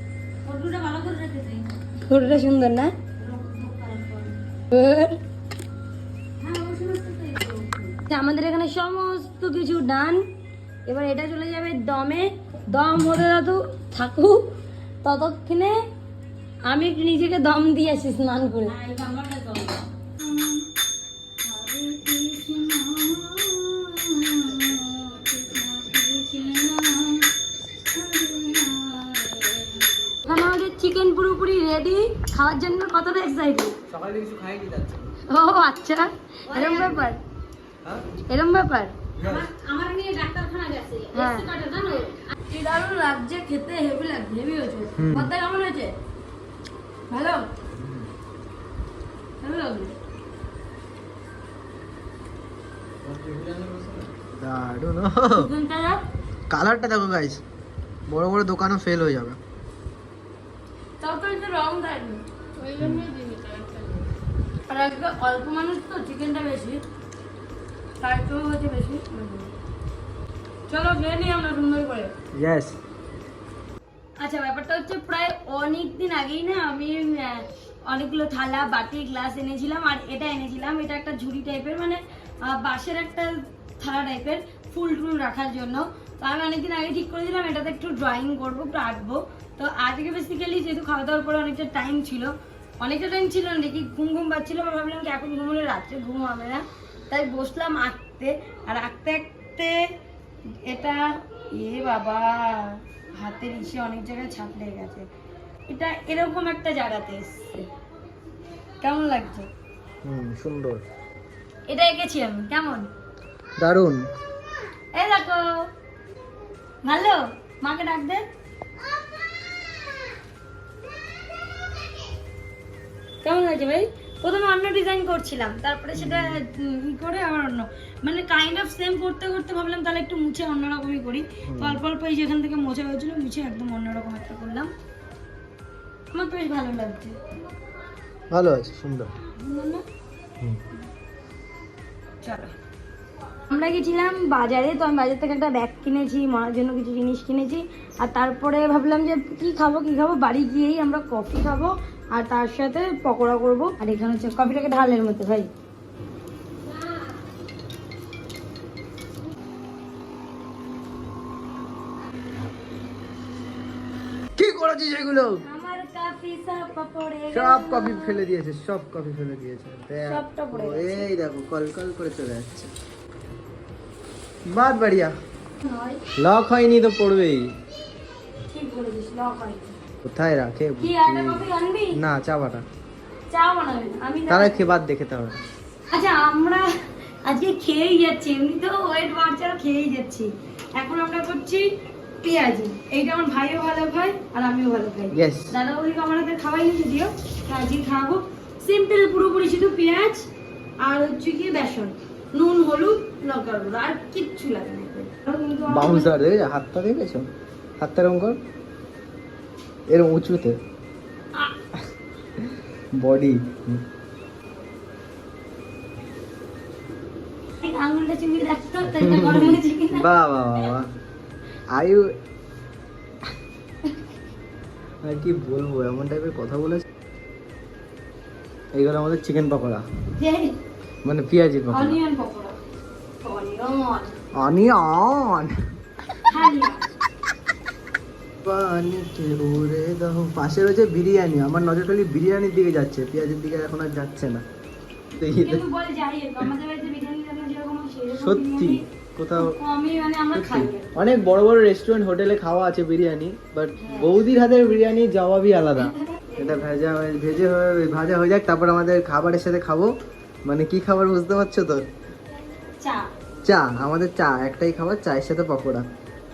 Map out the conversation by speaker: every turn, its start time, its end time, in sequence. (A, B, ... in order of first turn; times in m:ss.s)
0:00.4-0:01.8 A
0:02.1-0:02.9 B
0:03.2-0:04.4 A
0:04.7-0:05.2 B
0:06.4-0:08.0 A
0:08.1-0:10.2 B
0:10.9-0:14.5 B
0:15.0-0:15.8 B
0:16.7-0:18.8 B
0:18.7-0:20.7 A
0:21.4-0:27.3 A
0:27.9-0:29.9 A
0:30.2-0:33.8 B
0:33.9-0:35.1 C
0:35.3-0:37.2 B
0:36.5-0:37.1 A
0:38.3-0:38.9 B
0:39.2-0:39.5 C
0:39.2-0:42.3 A
0:41.1-0:41.5 B
0:42.5-0:45.9 B
0:45.0-0:45.3 C
0:47.1-0:47.4 B
0:47.8-0:48.1 C
0:49.4-0:50.0 B
0:53.0-0:55.5 C
0:55.4-0:56.0 B
0:56.5-0:57.4 C
0:58.1-0:59.4 C
1:01.0-1:02.2 B
1:02.6-1:04.1 A
1:02.8-1:03.1 C
1:04.7-1:06.8 B
1:08.0-1:09.5 B
1:10.7-1:12.1 B
1:12.3-1:12.8 C
1:14.2-1:39.8 B
1:40.6-1:45.1 B
1:45.7-1:47.7 B
1:48.8-1:49.5 B
1:50.0-1:50.8 C
1:51.7-1:52.9 B
1:53.6-1:54.1 C
1:54.9-1:55.7 B
1:56.8-1:58.2 B
2:03.2-2:14.7 B
2:06.0-2:06.4 C
2:11.5-2:11.8 C
2:16.1-2:17.2 B
2:18.3-2:19.1 C
2:19.4-2:19.8 B
2:22.2-2:22.5 B
2:23.5-2:35.5 B
2:36.8-2:37.0 A
2:44.4-2:45.4 C
2:45.4-2:48.2 B
2:47.3-2:52.7 C
2:50.1-2:51.1 B
2:54.5-2:55.1 C
2:55.6-2:56.0 B
2:56.2-2:57.5 C
2:58.5-2:59.7 B
3:00.0-3:02.6 C
3:00.8-3:02.0 B
3:03.3-3:04.6 B
3:04.3-3:05.4 C
3:05.9-3:06.7 B
3:07.2-3:11.7 B
3:12.2-3:20.2 B
3:15.1-3:15.5 C
3:20.8-3:26.1 B
3:25.7-3:27.3 C
3:27.8-3:28.4 C
3:29.9-3:30.6 C
3:32.4-3:33.8 C
3:37.6-3:40.1 B
3:38.9-3:40.9 C
3:41.7-3:42.1 C
3:45.0-3:46.8 C
3:48.7-3:49.9 C
3:50.2-3:50.5 B
3:51.0-3:52.0 C
3:51.7-3:52.6 B
3:53.2-3:54.1 B
3:54.3-3:55.5 C
3:56.3-3:56.8 B
3:58.4-4:04.4 C
4:05.2-4:05.6 C
4:05.4-4:08.8 B
4:08.2-4:09.6 C
4:09.4-4:11.0 B
4:10.3-4:19.9 C
4:13.8-4:14.1 B
4:15.8-4:16.6 B
4:20.5-4:21.9 C
4:22.8-4:23.1 B
4:23.5-4:25.9 C